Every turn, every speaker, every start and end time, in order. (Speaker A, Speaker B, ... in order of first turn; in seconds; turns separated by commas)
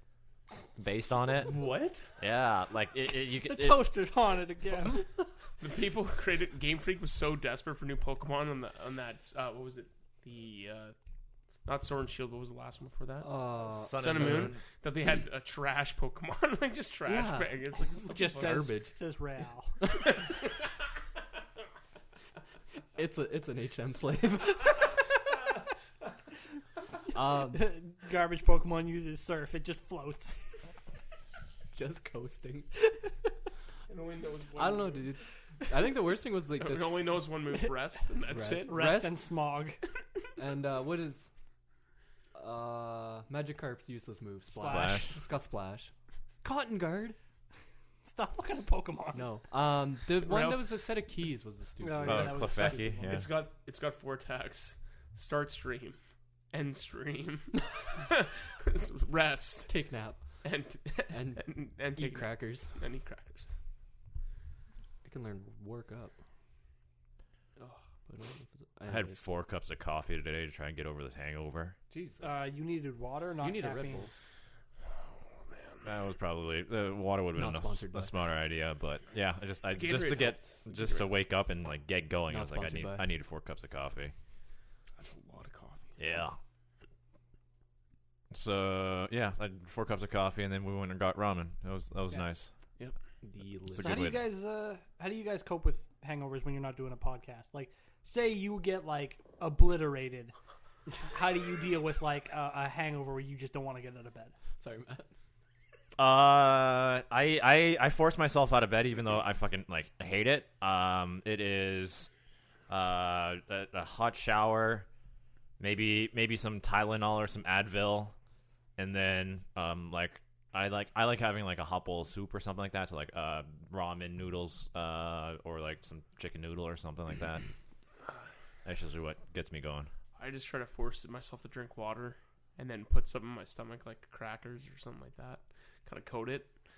Speaker A: 0.8-1.5, Speaker B: 1.4-2.1, Speaker A: 2.2-3.9, Speaker C: 3.4-5.1, Speaker B: 4.8-5.2, Speaker D: 5.6-10.9, Speaker D: 11.7-18.7, Speaker B: 13.2-14.6, Speaker A: 13.6-14.6, Speaker B: 17.1-18.9, Speaker C: 18.1-19.8, Speaker B: 22.9-25.0, Speaker B: 27.1-27.7, Speaker C: 27.3-30.4, Speaker B: 31.7-32.7, Speaker D: 33.9-35.1, Speaker B: 34.5-37.2, Speaker D: 36.6-38.8, Speaker B: 38.3-39.2, Speaker C: 38.6-39.8, Speaker B: 40.4-41.3, Speaker B: 42.3-45.9, Speaker C: 44.5-45.1, Speaker A: 44.5-45.2, Speaker B: 46.4-47.2, Speaker C: 48.0-49.3, Speaker B: 49.1-52.8, Speaker D: 50.1-51.1, Speaker C: 51.8-53.3, Speaker A: 52.0-53.3, Speaker D: 52.6-56.0, Speaker D: 56.5-59.8, Speaker B: 59.7-60.4, Speaker D: 60.4-63.5, Speaker B: 61.1-62.8, Speaker B: 65.0-66.2, Speaker B: 68.0-69.2, Speaker A: 68.9-71.8, Speaker B: 71.9-72.5, Speaker C: 72.2-74.1, Speaker B: 73.4-74.1, Speaker D: 75.2-75.8, Speaker A: 75.8-84.1, Speaker B: 77.3-78.1, Speaker D: 79.7-81.1, Speaker B: 82.3-83.1, Speaker D: 85.0-86.0, Speaker A: 86.0-86.4, Speaker A: 88.3-92.5, Speaker B: 93.2-94.2, Speaker A: 93.7-94.2, Speaker C: 93.8-100.3, Speaker C: 101.0-104.3, Speaker B: 104.6-105.1, Speaker A: 106.0-112.1, Speaker A: 112.7-114.8, Speaker A: 115.6-118.1, Speaker A: 118.8-127.4, Speaker A: 128.6-129.9, Speaker D: 130.2-136.5